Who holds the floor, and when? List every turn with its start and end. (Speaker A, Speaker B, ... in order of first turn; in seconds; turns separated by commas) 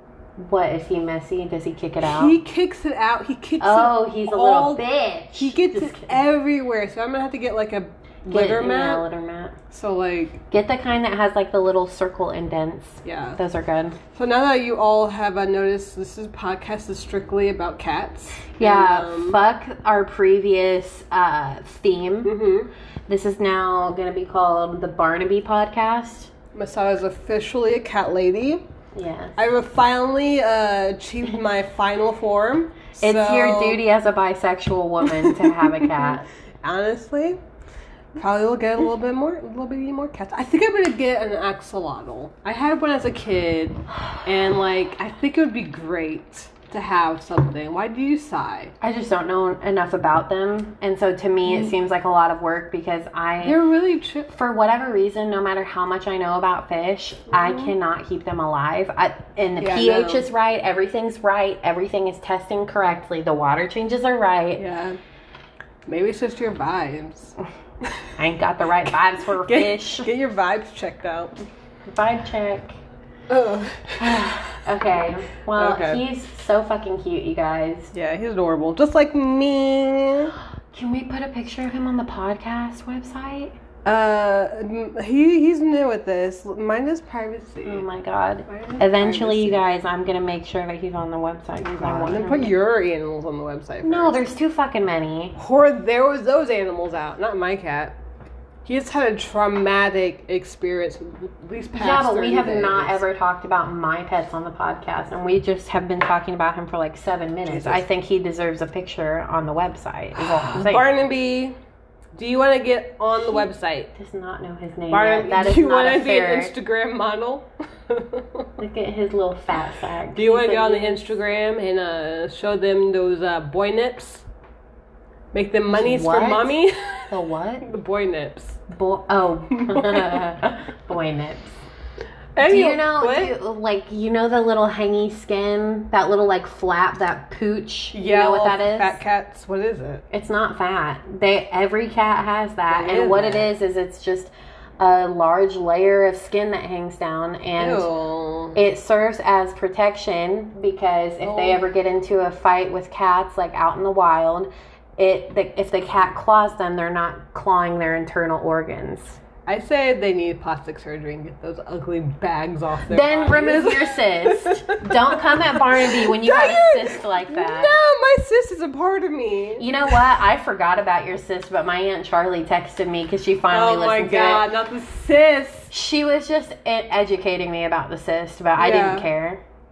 Speaker A: 0.4-2.4, Speaker B: 2.0-9.1, Speaker A: 3.6-6.2, Speaker A: 8.3-9.6, Speaker B: 9.7-10.4, Speaker A: 10.5-14.0, Speaker B: 13.0-13.4, Speaker B: 14.1-19.4, Speaker A: 18.5-22.3, Speaker B: 22.2-22.7, Speaker A: 23.1-26.3, Speaker B: 26.5-28.6, Speaker A: 28.9-29.4, Speaker B: 29.4-33.8, Speaker A: 33.0-36.3, Speaker B: 35.0-37.4, Speaker B: 38.1-48.7, Speaker A: 48.8-53.6, Speaker B: 51.5-51.7, Speaker B: 53.4-54.3, Speaker A: 54.3-64.6, Speaker B: 57.3-57.7, Speaker B: 59.6-60.3, Speaker B: 64.6-65.0, Speaker B: 65.9-67.9, Speaker A: 68.2-70.1, Speaker B: 69.3-71.3, Speaker A: 71.9-72.7, Speaker B: 73.3-74.3, Speaker A: 74.0-77.9, Speaker B: 75.5-76.0, Speaker B: 77.9-80.3, Speaker A: 80.7-83.5, Speaker B: 83.8-87.8, Speaker A: 87.6-92.5, Speaker B: 88.5-89.6, Speaker B: 91.7-94.2, Speaker A: 93.8-95.3, Speaker B: 95.3-98.0, Speaker B: 98.6-103.0, Speaker A: 101.7-111.0, Speaker B: 107.5-107.8, Speaker B: 110.2-111.5, Speaker B: 112.1-113.9, Speaker A: 113.9-116.5, Speaker B: 114.9-118.5, Speaker A: 118.6-121.0, Speaker B: 120.1-124.2, Speaker B: 125.3-128.6, Speaker A: 125.7-126.6, Speaker A: 127.1-127.7, Speaker A: 128.7-131.5, Speaker B: 129.6-130.2, Speaker B: 132.3-133.3, Speaker A: 132.4-139.0, Speaker B: 137.9-140.0, Speaker A: 140.1-147.9, Speaker B: 142.7-143.5, Speaker B: 147.6-148.6, Speaker A: 148.5-159.2, Speaker B: 151.2-151.7, Speaker B: 159.4-170.0, Speaker A: 162.9-167.7, Speaker A: 169.6-174.4, Speaker B: 173.5-175.7, Speaker A: 175.7-179.4, Speaker B: 178.6-179.1